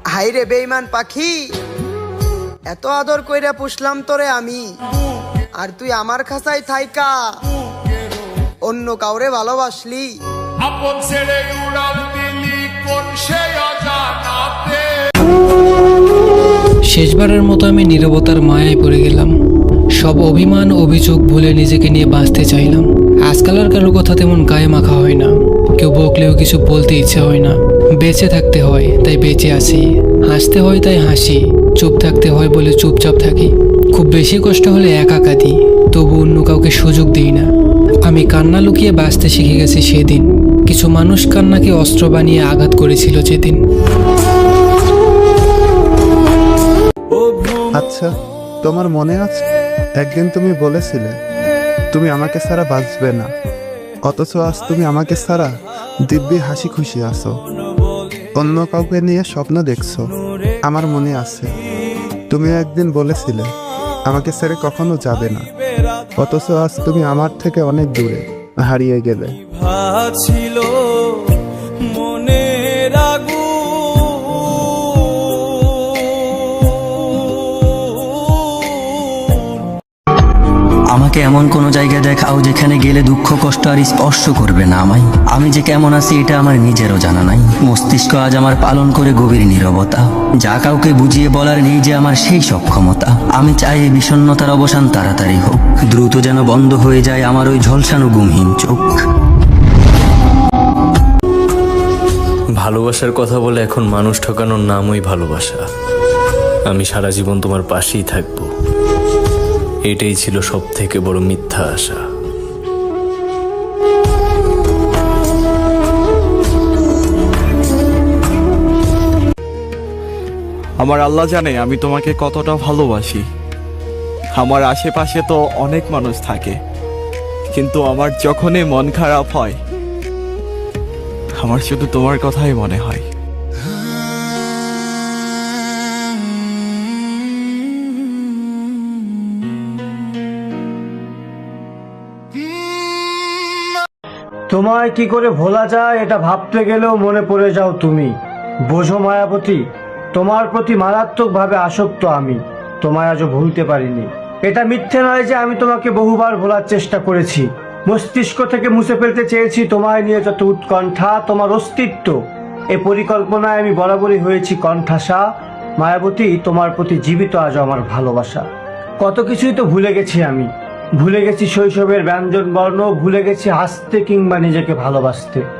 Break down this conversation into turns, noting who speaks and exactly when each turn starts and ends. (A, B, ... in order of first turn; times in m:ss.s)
0:00.1-0:01.4 A
0:02.7-0:04.6 A
0:05.6-0:07.1 A
0:08.7-0:10.1 A
0:10.6-0:14.8 B
0:16.9-0:19.3 C
0:20.0-0:37.5 C
0:38.1-0:43.6 C
0:47.7-0:48.1 D
0:48.6-0:49.4 D
0:50.0-0:51.1 D
0:51.9-0:53.3 D
0:54.0-0:55.5 D
0:56.0-0:57.3 D
0:58.4-1:00.1 D
1:00.6-1:01.5 D
1:02.3-1:03.5 D
1:04.1-1:05.5 D
1:06.2-1:09.4 D
1:20.9-1:39.0 E
1:42.6-1:45.6 F
1:46.6-1:48.5 F
1:49.8-1:52.0 F
2:00.8-2:03.2 G
2:04.4-2:06.6 G
2:07.5-2:09.6 G
2:11.4-2:13.0 G
2:24.5-2:28.1 H
2:28.7-2:29.6 H
2:30.1-2:42.2 H
2:42.7-2:45.2 H
2:45.8-2:48.5 H
2:49.0-2:50.5 H
2:51.0-2:55.4 H